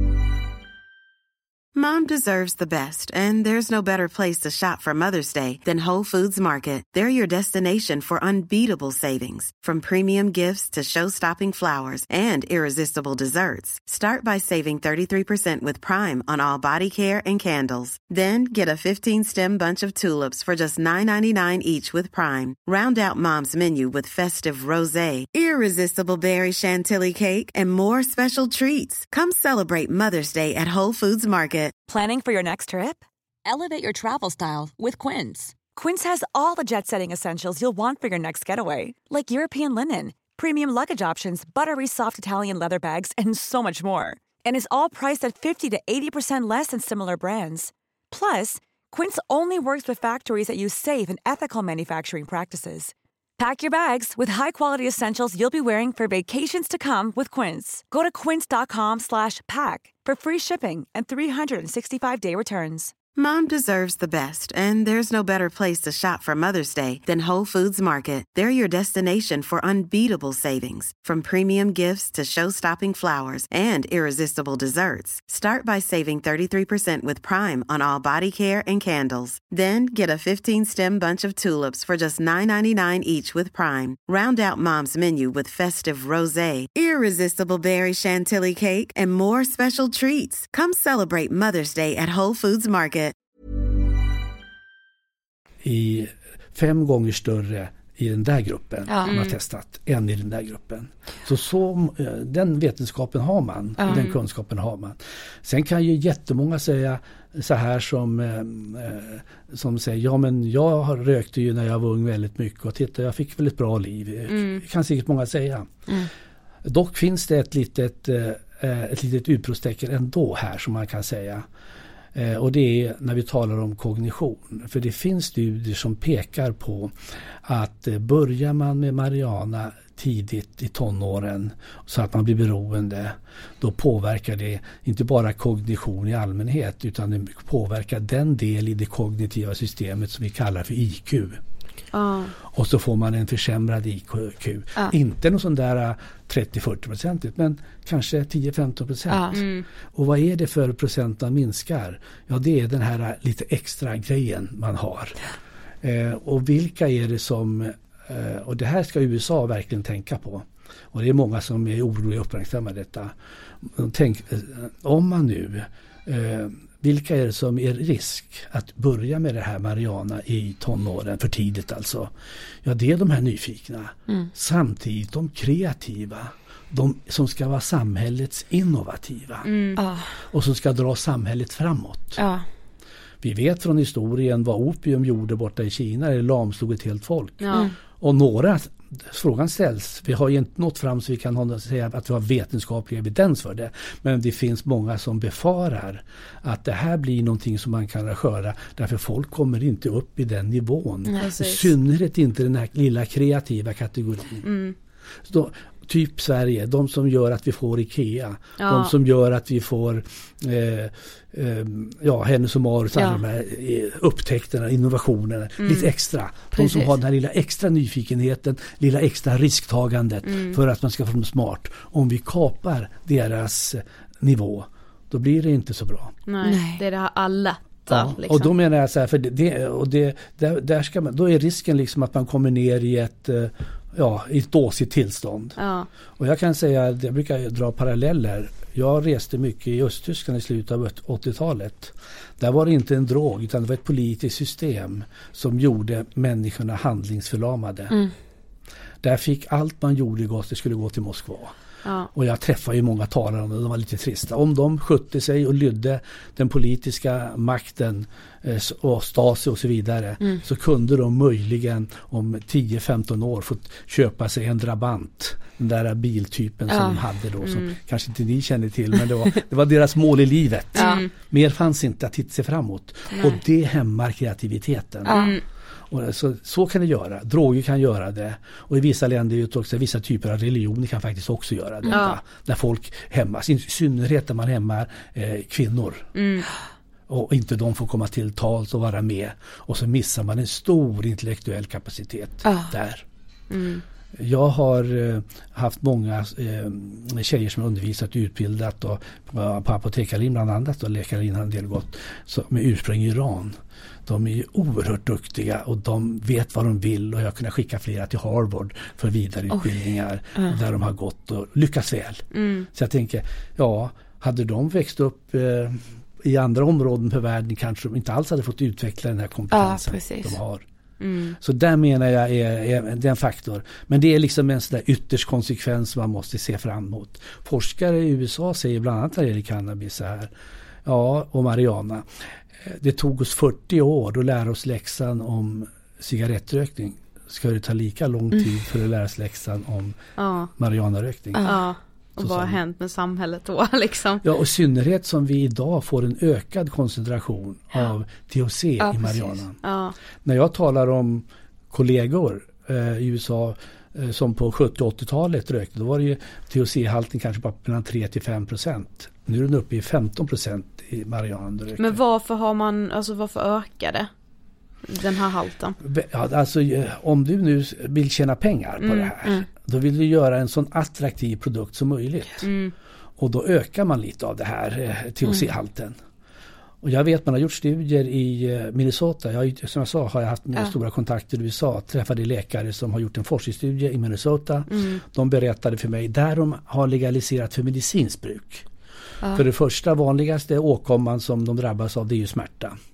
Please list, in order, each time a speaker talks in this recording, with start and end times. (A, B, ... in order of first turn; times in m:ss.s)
0:01.7-0:31.7 A
0:31.9-1:02.9 B
1:03.2-1:33.1 A
1:35.6-1:55.8 C
1:38.9-1:39.2 D
1:39.0-1:39.4 E
1:43.8-1:44.1 D
1:43.8-1:44.2 E
1:54.3-1:54.6 E
1:56.6-2:01.4 C
2:02.1-2:21.4 C
2:21.9-2:22.3 E
2:22.5-2:29.4 C
2:29.1-2:29.4 D
2:29.3-2:29.6 E
2:29.9-2:35.2 C
2:35.8-2:52.1 C
2:52.6-2:59.5 C
2:59.4-2:59.8 E
2:59.8-3:00.1 D
3:00.3-3:02.2 C
3:02.2-3:02.4 D
3:03.2-3:07.4 C
3:07.4-3:07.7 E
3:08.0-3:24.4 C
3:21.1-3:21.7 E
3:24.4-3:24.7 E
3:25.3-3:46.1 C
3:28.6-3:28.9 E
3:35.6-3:35.9 E
3:40.3-3:40.6 E
3:46.3-3:48.5 E
3:46.4-3:46.8 D
3:47.9-3:55.6 C
3:55.6-3:55.9 E
3:56.2-4:08.0 C
4:09.0-4:11.5 C
4:12.1-4:35.2 C
4:26.7-4:27.0 D
4:27.4-4:27.7 E
4:30.8-4:31.0 D
4:30.8-4:31.1 E
4:35.0-4:35.4 D
4:35.1-4:35.4 E
4:35.9-4:46.1 C
4:41.9-4:42.2 E
4:46.2-4:46.4 E
4:47.1-4:53.0 C
4:52.4-4:52.7 D
4:53.5-4:53.8 E
4:54.2-5:20.6 C
5:12.3-5:12.7 E
5:19.5-5:20.4 D
5:21.0-5:21.4 E
5:21.4-5:30.3 C
5:30.8-5:32.1 C
5:32.6-5:40.0 C
5:40.2-5:40.5 E
5:40.6-5:41.4 C
5:41.3-5:41.6 D
5:41.4-5:44.2 E
5:42.2-5:42.6 C
5:44.2-5:49.6 C
5:48.8-5:49.4 D
5:49.6-5:49.9 E
5:50.2-6:02.0 C
6:01.8-6:04.1 E
6:04.8-6:05.8 E
6:05.8-6:12.5 C
6:08.8-6:09.1 E
6:12.4-6:12.7 E
6:13.2-6:16.0 C
6:16.8-6:28.6 C
6:29.3-6:32.8 C